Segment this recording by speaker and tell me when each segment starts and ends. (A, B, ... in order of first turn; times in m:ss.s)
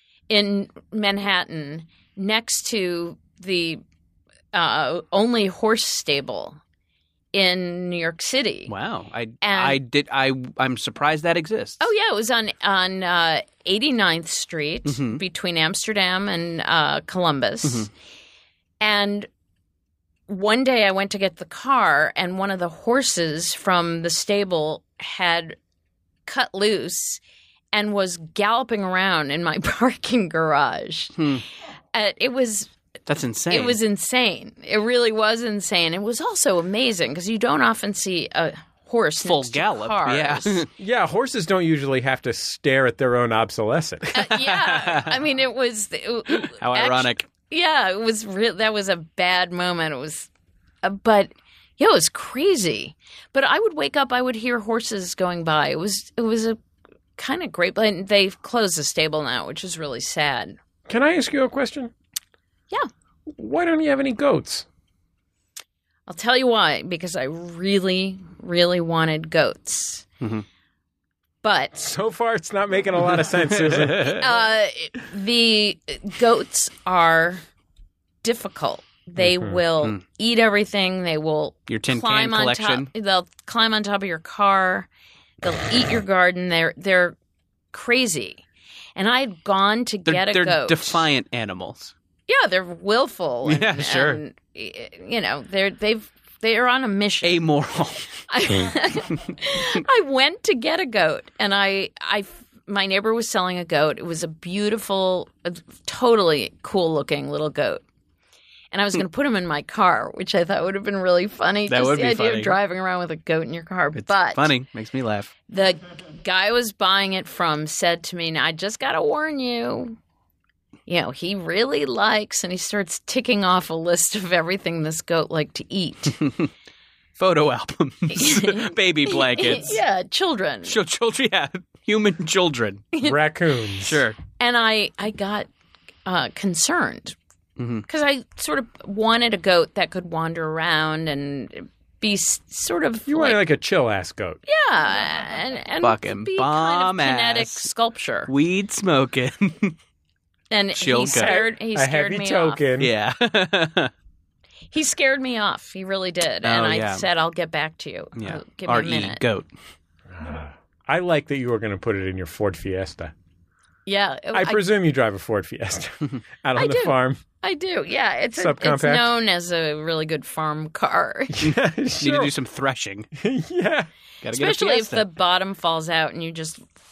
0:00.3-0:03.8 A
0:04.5-0:06.6 A
0:07.3-0:08.7 A
0:08.7-0:11.8 B
0:09.4-0:09.8 A
0:11.8-0:17.9 A
0:14.8-0:15.2 B
0:18.8-0:19.3 A
0:20.3-0:25.6 A
0:26.2-0:27.2 A
0:27.7-0:31.2 A
0:31.2-0:31.4 B
0:31.9-0:32.7 A
0:33.1-0:33.8 B
0:33.5-0:40.6 A
0:39.2-0:40.7 B
0:40.8-0:44.1 C
0:44.1-0:45.2 B
0:44.1-0:50.3 A
0:46.4-0:47.3 B
0:50.8-0:56.6 A
0:57.2-1:00.6 A
1:00.9-1:01.9 C
1:03.3-1:04.6 C
1:06.1-1:10.0 A
1:11.4-1:11.7 A
1:11.7-1:14.3 C
1:13.5-1:14.2 B
1:14.2-1:17.4 A
1:18.2-1:24.9 A
1:19.2-1:19.6 C
1:21.7-1:22.9 B
1:25.4-1:27.2 A
1:27.7-1:28.4 A
1:29.0-1:31.0 A
1:30.0-1:31.9 B
1:32.3-1:37.4 A
1:33.4-1:34.2 B
1:37.2-1:38.2 B
1:38.3-1:47.8 A
1:48.7-1:54.5 A
1:51.7-1:52.6 B
1:53.9-1:55.3 B
1:55.5-2:00.0 A
2:00.9-2:06.2 A
2:06.2-2:06.5 B
2:07.2-2:09.8 B
2:08.1-2:10.7 A
2:10.6-2:12.8 B
2:13.0-2:14.0 C
2:13.8-2:14.2 B
2:14.4-2:15.5 A
2:16.0-2:17.2 A
2:17.6-2:17.8 B
2:17.9-2:23.4 A
2:23.1-2:24.4 C
2:24.5-2:28.3 A
2:25.8-2:27.7 B
2:28.3-2:29.8 B
2:30.5-2:32.6 A
2:30.8-2:31.4 B
2:31.1-2:32.9 C
2:32.8-2:33.9 B
2:34.7-2:39.2 A
2:36.4-2:37.0 B
2:38.2-2:39.5 B
2:40.1-2:43.1 C
2:43.8-2:44.6 A
2:44.3-2:47.2 C
2:46.6-2:51.4 A
2:48.4-2:49.1 C
2:51.3-2:52.3 C
2:52.0-2:53.1 B
2:53.2-2:53.9 C
2:54.2-2:55.0 B
2:54.3-2:56.6 A